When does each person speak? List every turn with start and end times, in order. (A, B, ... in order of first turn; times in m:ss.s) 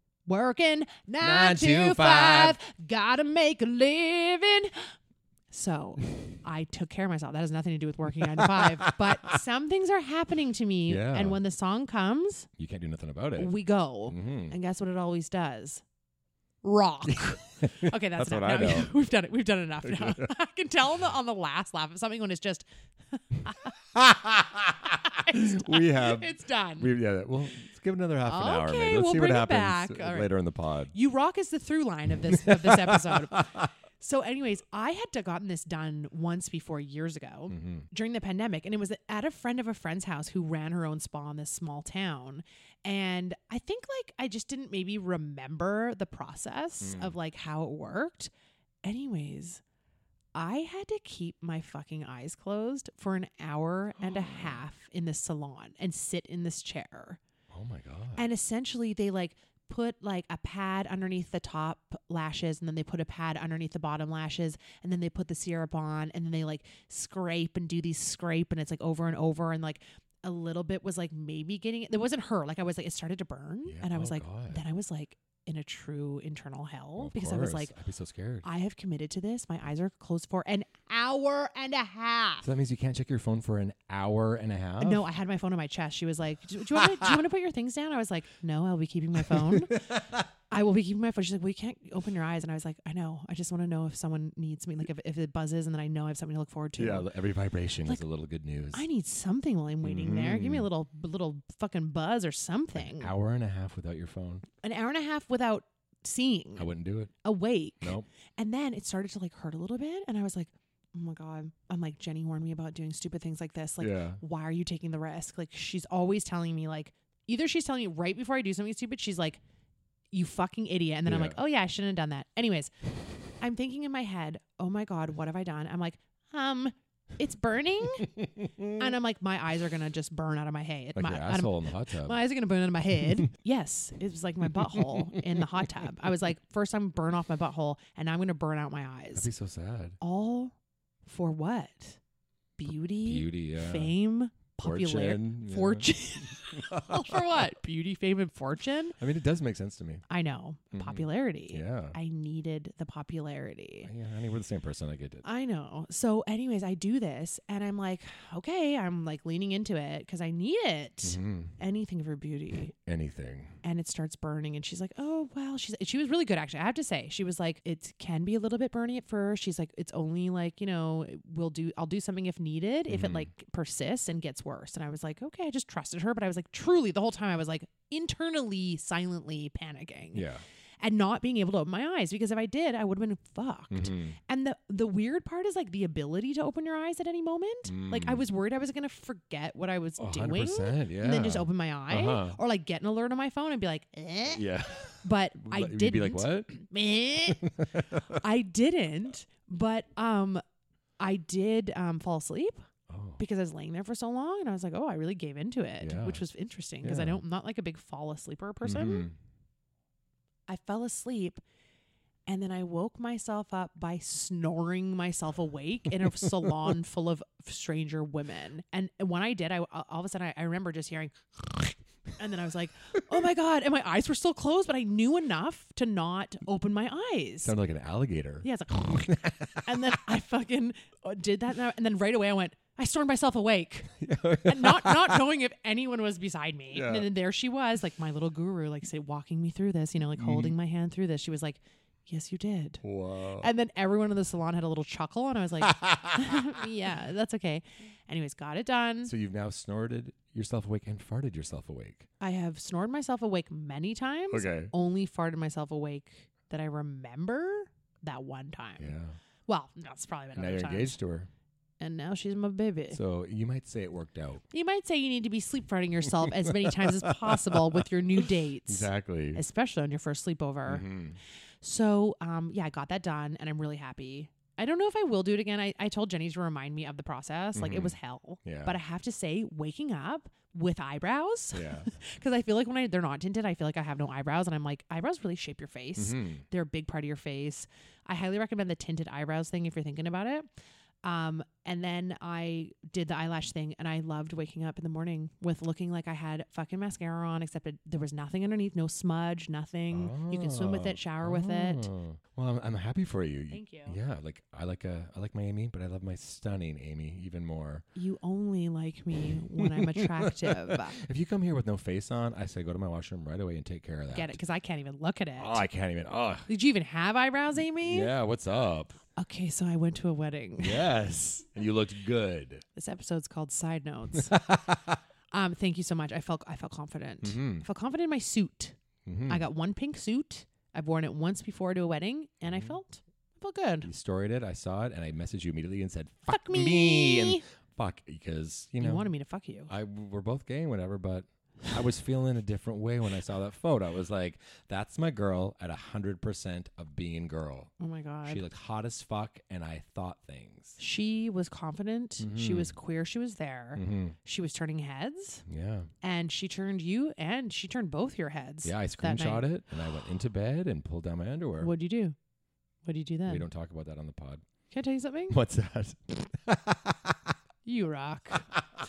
0:00.2-0:04.9 A
0:01.2-0:02.6 B
0:05.5-0:12.5 A
0:08.3-0:09.2 B
0:10.9-0:11.4 B
0:12.6-0:13.5 B
0:13.4-0:15.8 A
0:14.1-0:14.6 B
0:16.6-0:23.7 A
0:17.1-0:18.9 B
0:19.8-0:20.3 B
0:24.0-0:30.9 B
0:25.1-0:26.9 A
0:28.3-0:30.3 A
0:30.9-0:33.5 A
0:32.3-0:33.7 B
0:34.0-0:48.3 A
0:37.5-0:37.8 B
0:46.8-0:47.2 B
0:48.8-0:49.6 A
0:50.3-0:57.2 A
0:54.0-0:54.6 B
0:57.5-0:58.2 B
0:58.2-1:17.7 A
1:13.6-1:14.6 B
1:17.0-1:18.4 B
1:18.4-1:22.5 A
1:22.4-1:25.0 B
1:24.8-1:29.8 A
1:26.8-1:27.1 B
1:29.2-1:30.2 B
1:30.5-1:37.1 A
1:36.8-1:38.8 B
1:38.7-1:43.1 A
1:39.8-1:40.7 B
1:42.7-1:44.4 B
1:44.6-1:46.7 A
1:46.6-1:47.1 B
1:47.2-1:59.4 A
1:47.8-1:48.1 B
1:53.8-1:54.2 B
2:00.1-2:02.7 A
2:01.0-2:01.4 B
2:03.4-2:08.1 A
2:08.2-2:08.8 B
2:08.8-2:19.3 A
2:10.9-2:12.2 B
2:14.8-2:15.2 B
2:19.1-2:20.0 B
2:20.0-2:20.5 A
2:21.0-2:22.0 A
2:22.6-2:29.0 A
2:23.0-2:23.9 B
2:24.6-2:27.4 B
2:29.0-2:30.0 B
2:30.1-2:33.9 A
2:30.7-2:32.0 B
2:33.8-2:35.2 B
2:35.2-2:42.7 A
2:41.0-2:41.6 B
2:42.8-2:43.5 B
2:43.6-3:00.2 A
2:52.9-2:53.3 B
3:00.1-3:00.4 B
3:00.8-3:14.4 A
3:03.7-3:04.2 B
3:07.7-3:08.2 B
3:10.0-3:12.4 B
3:14.3-3:16.5 B
3:15.0-3:17.4 A
3:17.3-3:18.2 B
3:18.1-3:20.4 A
3:21.0-3:22.6 A
3:22.9-3:23.2 B
3:23.2-3:29.1 A
3:25.8-3:26.2 B
3:26.8-3:27.2 B
3:28.6-3:29.1 B
3:30.5-3:31.4 A
3:32.3-3:47.5 A
3:47.4-3:50.0 B
3:48.4-4:02.8 A
3:54.0-3:55.2 B
3:56.7-3:57.1 B
4:00.2-4:00.5 B
4:02.8-4:03.5 B
4:03.4-4:09.1 A
4:05.6-4:06.3 B
4:09.0-4:12.1 B
4:12.2-4:18.9 A
4:14.3-4:14.7 B
4:18.8-4:19.2 B
4:19.5-4:21.0 A
4:20.3-4:21.3 B
4:21.8-4:23.0 A
4:22.9-4:24.4 B
4:24.5-4:30.9 A
4:26.7-4:29.4 B
4:30.7-4:31.2 B
4:31.6-4:50.5 A
4:37.5-4:38.8 B
4:41.5-4:41.9 B
4:46.0-4:46.4 B
4:51.0-5:01.9 A
4:59.9-5:07.8 B
5:03.5-5:04.0 A
5:07.9-5:11.0 A
5:09.6-5:14.4 B
5:14.1-5:15.6 A
5:15.4-5:16.5 B
5:16.5-5:18.1 A
5:17.8-5:19.0 B
5:19.2-5:20.8 A
5:20.6-5:22.6 B
5:22.8-5:24.4 A
5:24.1-5:25.0 B
5:25.3-5:28.7 A
5:27.2-5:27.6 B
5:29.0-5:29.4 B
5:29.3-5:33.9 A
5:32.4-5:32.8 B
5:33.8-5:39.1 B
5:36.3-5:37.4 A
5:38.8-5:39.7 A
5:39.7-5:47.7 B
5:47.8-5:48.4 A
5:48.2-5:50.8 B
5:50.8-5:55.4 A
5:52.2-5:52.7 B
5:53.8-5:54.2 B
5:55.5-5:55.9 B
5:56.0-5:59.5 A
5:58.6-6:01.7 B
6:01.6-6:02.1 A
6:02.8-6:03.4 A
6:03.3-6:04.4 B
6:04.7-6:05.4 A
6:05.3-6:07.3 B
6:07.6-6:08.5 A